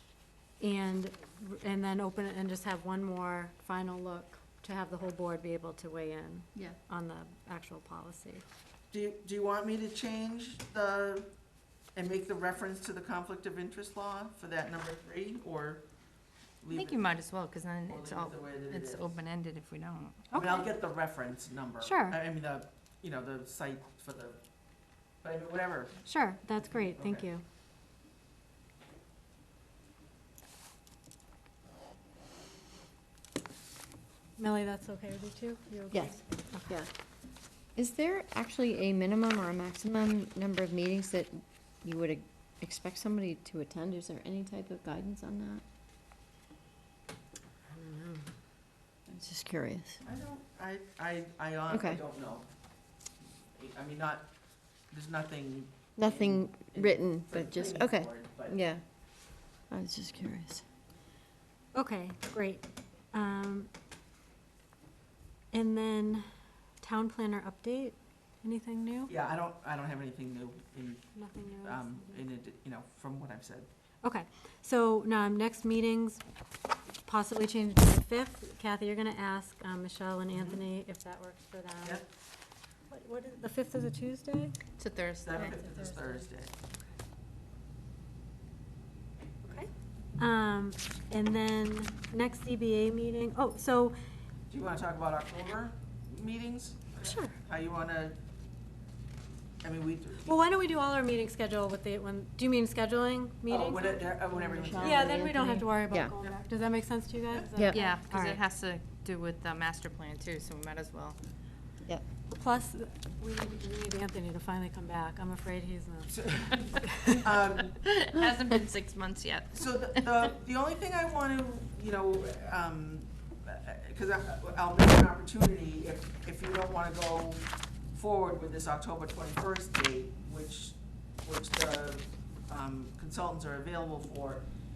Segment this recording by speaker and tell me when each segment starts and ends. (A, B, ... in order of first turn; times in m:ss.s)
0:00.6-0:08.4 A
0:08.9-0:11.3 B
0:11.9-0:15.8 B
0:16.6-0:17.0 B
0:16.7-0:20.4 C
0:17.9-0:19.2 B
0:20.3-0:20.7 A
0:20.3-0:24.4 B
0:21.8-0:22.2 A
0:25.2-0:26.0 B
0:26.0-0:27.4 A
0:26.9-0:27.2 B
0:34.4-0:36.8 A
0:35.9-0:36.9 D
0:37.8-0:45.6 D
0:47.7-0:48.3 A
0:49.1-0:50.0 D
0:50.0-0:52.5 B
0:51.7-0:52.0 D
0:53.6-0:54.3 B
0:54.9-0:58.6 B
0:56.0-0:58.8 D
0:59.7-1:00.6 D
1:01.7-1:03.7 A
1:05.5-1:06.3 A
1:06.8-1:09.1 A
1:09.1-1:13.7 B
1:11.1-1:12.2 A
1:14.0-1:16.2 A
1:17.0-1:22.1 A
1:20.3-1:20.6 B
1:22.9-1:24.6 A
1:24.8-1:25.6 C
1:25.2-1:26.5 B
1:25.5-1:26.2 A
1:29.4-1:34.0 A
1:34.5-1:38.2 B
1:37.0-1:37.4 A
1:39.6-1:40.4 B
1:40.2-1:48.4 A
1:43.5-1:45.3 B
1:44.6-1:46.1 D
1:47.7-1:51.2 C
1:52.3-1:56.3 A
1:56.1-1:57.8 B
1:56.8-1:57.2 A
1:57.7-2:00.3 C
1:59.6-2:14.4 B